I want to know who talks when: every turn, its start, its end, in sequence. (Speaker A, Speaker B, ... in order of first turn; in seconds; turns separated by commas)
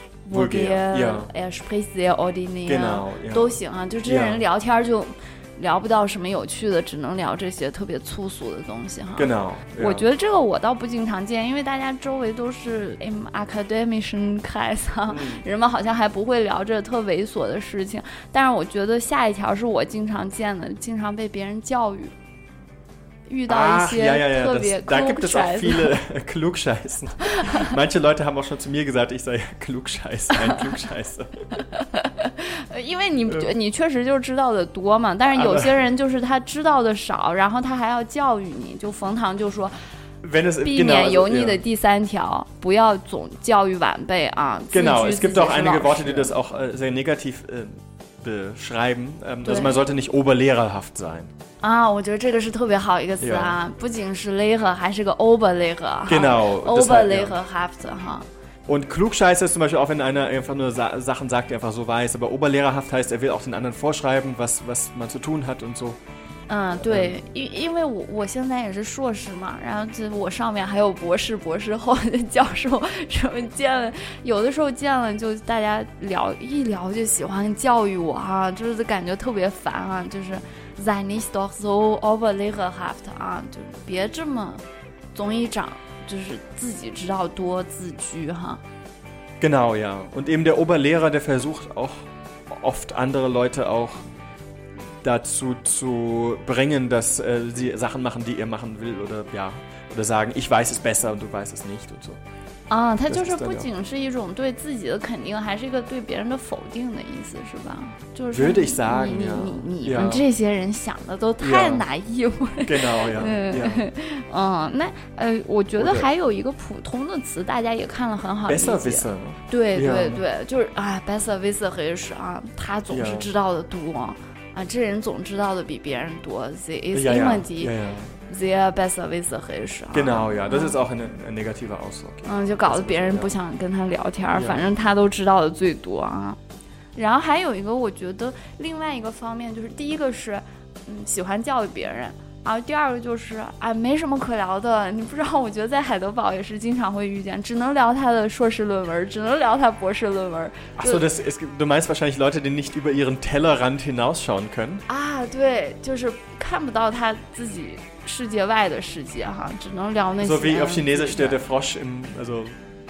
Speaker A: 0.2-22.1, Speaker B: 0.3-1.3, Speaker B: 2.7-4.4, Speaker B: 9.2-10.1, Speaker B: 15.1-15.4, Speaker A: 23.3-25.9, Speaker B: 23.5-31.6, Speaker A: 27.4-27.6, Speaker A: 31.6-39.7, Speaker B: 33.3-33.5, Speaker B: 35.3-35.8, Speaker B: 40.2-41.6, Speaker A: 40.6-46.3, Speaker B: 44.7-51.3, Speaker A: 49.4-49.8, Speaker A: 51.6-58.2, Speaker B: 53.2-53.6, Speaker B: 56.1-57.4, Speaker B: 58.7-66.0, Speaker A: 66.5-84.6, Speaker B: 66.8-67.2, Speaker A: 85.1-88.6, Speaker B: 89.4-94.0, Speaker B: 94.9-102.2, Speaker A: 102.7-127.7, Speaker B: 103.1-103.7, Speaker B: 108.3-110.2, Speaker B: 111.4-111.8, Speaker B: 112.6-113.8, Speaker B: 115.8-116.1, Speaker B: 118.5-120.2, Speaker B: 122.9-123.3, Speaker B: 126.9-128.2, Speaker A: 128.3-130.8, Speaker B: 129.9-133.4, Speaker A: 132.2-136.4, Speaker B: 134.3-134.7, Speaker A: 136.9-151.0, Speaker B: 150.8-154.8, Speaker A: 154.9-161.4, Speaker B: 160.2-162.8